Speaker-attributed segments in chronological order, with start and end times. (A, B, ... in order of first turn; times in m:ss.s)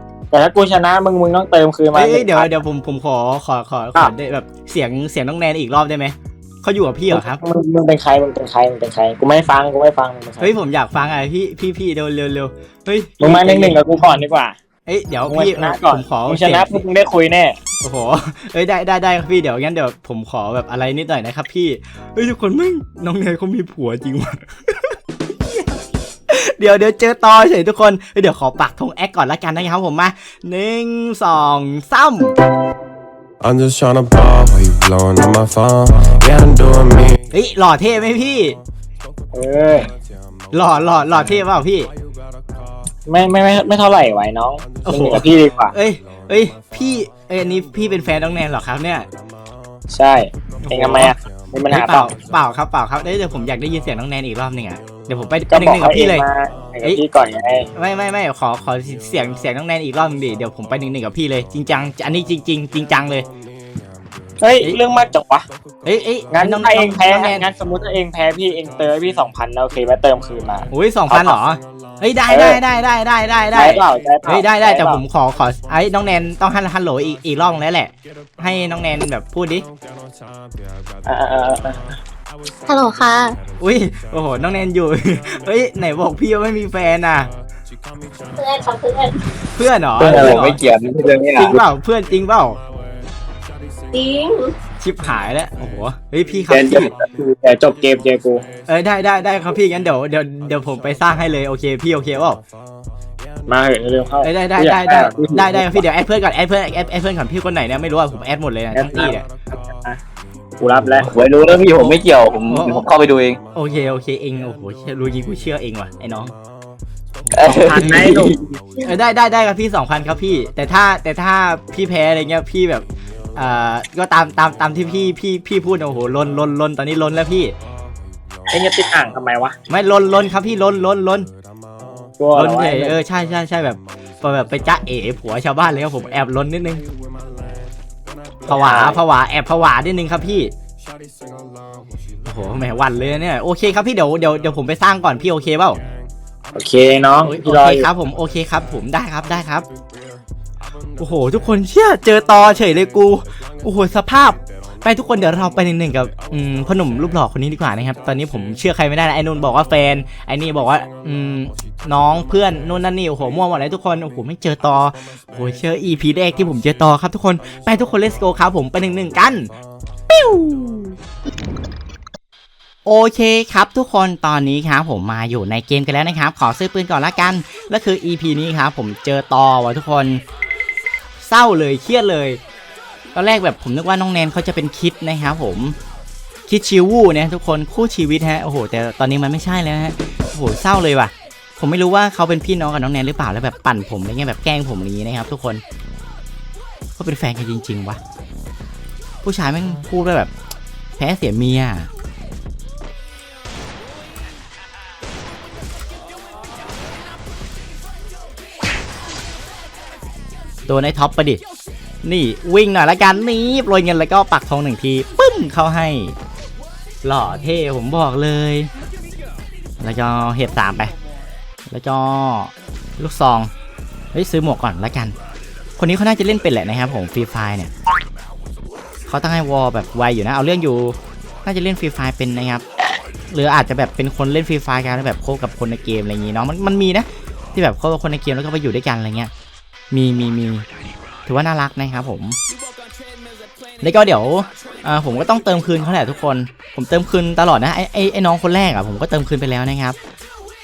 0:00.3-0:02.5 A
0:01.9-0:07.4 B
0:07.1-0:10.5 A
0:10.4-0:13.8 B
0:13.2-0:14.6 A
0:14.8-0:16.8 B
0:15.3-0:17.6 A
0:17.8-0:25.7 B
0:26.3-0:32.4 B
0:33.4-0:37.2 C
0:37.3-0:38.6 B
0:39.3-0:39.9 A
0:40.5-0:41.9 B
0:43.1-0:45.7 A
0:44.8-0:49.1 B
0:49.9-0:52.1 A
0:50.6-0:51.1 B
0:51.7-0:56.2 B
0:55.5-0:57.7 A
0:57.7-1:03.3 B
1:04.4-1:05.4 A
1:05.8-1:07.5 B
1:06.3-1:11.4 A
1:10.7-1:19.6 B
1:12.3-1:12.6 A
1:13.5-1:15.0 A
1:21.0-1:21.9 A
1:22.6-1:23.4 D
1:23.6-1:27.3 B
1:28.3-1:29.3 D
1:29.5-1:30.6 B
1:30.0-1:31.6 E
1:31.3-1:32.6 B
1:33.9-1:34.5 D
1:34.8-1:36.9 B
1:36.5-1:38.4 A
1:38.7-1:42.4 B
1:43.5-1:45.8 A
1:44.2-1:49.2 B
1:48.7-1:50.0 A
1:50.6-1:51.1 A
1:50.8-1:52.0 B
1:51.1-1:53.4 E
1:52.5-1:52.9 B
1:53.5-1:56.3 B
1:57.2-1:58.2 B
1:57.3-1:58.4 E
1:57.5-1:58.4 A
1:58.8-2:02.8 B
2:03.4-2:07.5 B
2:08.5-2:09.6 A
2:09.7-2:11.3 B
2:12.2-2:12.9 A
2:12.3-2:16.8 B
2:18.4-2:20.5 B
2:18.5-2:19.0 A
2:22.2-2:25.8 B
2:26.5-2:27.9 A
2:27.2-2:29.6 B
2:31.0-2:49.5 B
2:50.1-2:51.0 B
2:52.8-3:00.2 B
3:01.2-3:02.4 B
3:03.1-3:05.8 B
3:06.5-3:15.6 B
3:17.0-3:18.0 B
3:19.2-3:20.3 B
3:21.0-3:21.9 B
3:30.7-3:31.4 B
3:32.0-3:36.1 B
3:37.0-3:38.7 B
3:39.8-3:40.9 B
3:41.7-3:43.5 B
3:44.1-3:45.2 B
3:45.8-3:47.7 B
3:49.1-3:52.6 B
3:53.3-3:59.3 B
3:59.9-4:00.6 B
4:01.3-4:02.4 B
4:03.8-4:10.0 B